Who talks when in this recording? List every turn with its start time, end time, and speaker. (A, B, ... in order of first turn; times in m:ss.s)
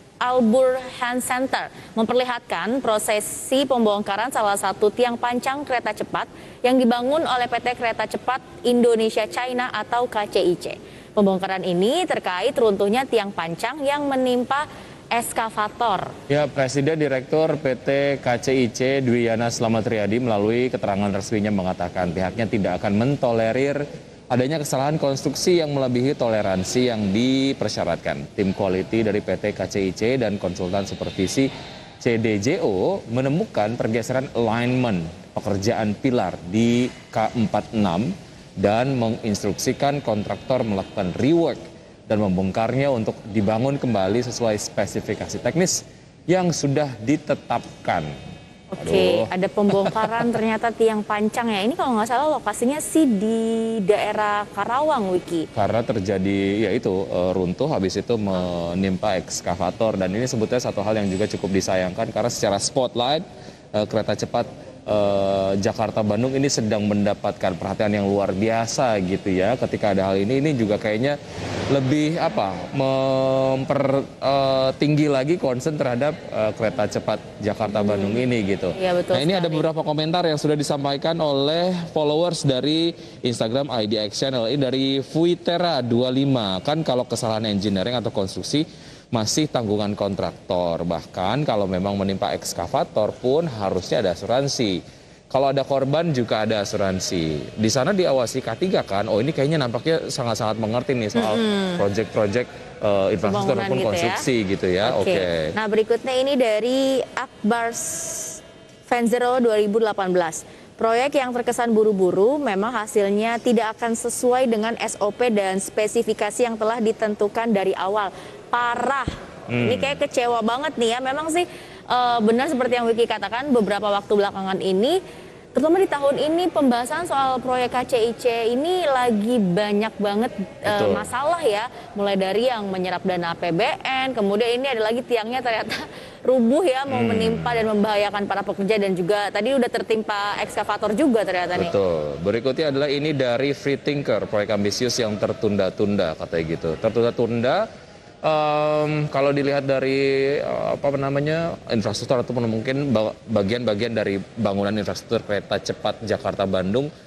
0:00.2-0:16.1 A
0:16.3-0:31.5 B
0:32.0-0:48.2 B
0:48.7-0:55.5 A
0:48.8-0:50.3 B
0:55.6-1:03.2 B
1:03.8-1:11.2 B
1:11.7-1:45.5 B
1:17.7-1:18.2 A
1:18.8-1:19.6 A
1:41.2-1:41.8 A
1:43.2-1:44.2 A
1:44.8-2:05.0 A
1:59.5-2:00.0 B
2:05.6-2:21.7 A
2:10.7-2:11.1 B
2:16.9-2:17.6 B
2:21.6-2:27.6 B
2:28.2-2:36.9 B